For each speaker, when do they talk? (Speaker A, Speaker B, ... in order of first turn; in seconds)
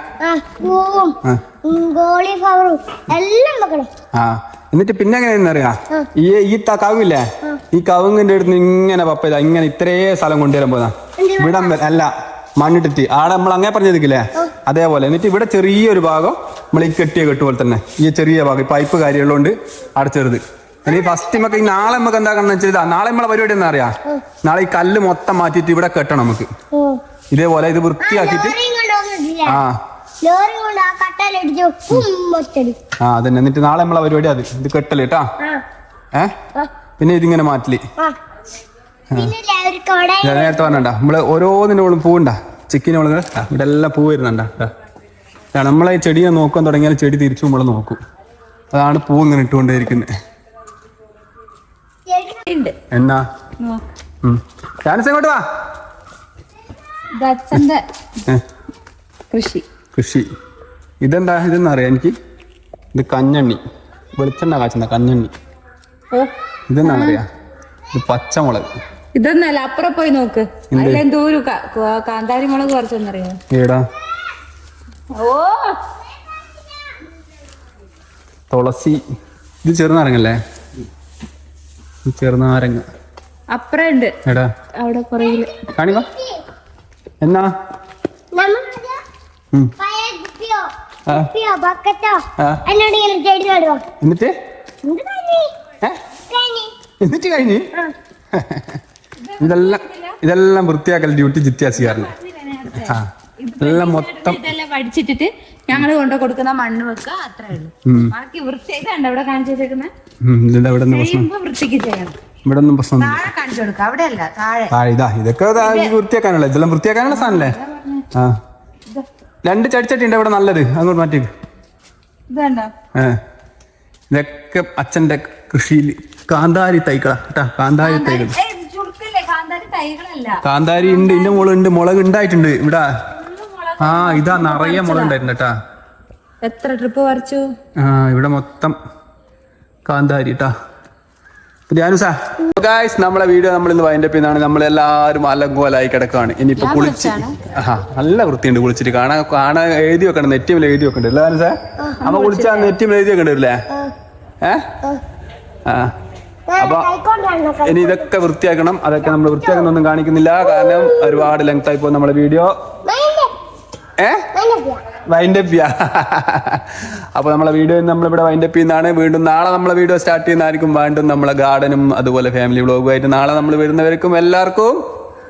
Speaker A: 0.2-3.9, 11.2-11.8, 20.9-22.0, 26.7-27.0, 28.0-29.6, 30.2-32.8, 39.1-40.8, 52.1-52.4, 85.2-86.4, 88.3-89.0, 89.8-93.8, 94.8-95.5, 96.3-96.7, 156.5-158.1, 159.0-159.7, 160.4-161.3, 162.8-163.3, 164.3-164.8
Speaker B: 4.1-26.5, 27.3-28.6, 29.4-29.8, 33.0-35.2, 37.0-37.8, 40.2-44.7, 45.5-48.0, 48.7-50.1, 52.9-53.2, 54.2-55.4, 59.9-60.3, 61.0-62.1, 62.9-63.6, 64.2-65.3, 66.7-67.3, 67.9-68.7, 70.7-71.0, 73.5-73.8, 78.5-79.0, 79.6-80.4, 82.0-82.9, 85.7-86.1, 87.2-87.5, 92.4-92.6, 94.0-94.3, 97.0-97.7, 98.3-98.8, 99.4-102.1, 102.7-103.1, 103.6-104.5, 107.8-108.1, 110.2-111.3, 112.4-113.3, 114.7-117.6, 119.4-121.3, 122.9-123.2, 124.1-128.3, 130.4-132.8, 133.8-135.5, 137.8-138.8, 139.8-140.5, 141.7-153.6, 154.4-154.7, 155.7-155.9, 156.6-156.9, 157.6-162.5, 164.0-164.3, 165.1-174.8
Speaker C: 52.5-52.8, 57.1-57.8, 59.3-59.6, 66.1-67.2, 69.1-73.4, 75.1-75.8, 83.5-84.1, 84.8-85.5, 99.2-100.2, 101.7-109.9, 110.9-112.2, 113.0-114.7, 115.6-116.0, 117.1-118.1, 122.3-122.7, 127.8-131.4, 133.1-135.1, 136.4-137.5, 146.6-147.4, 152.0-152.7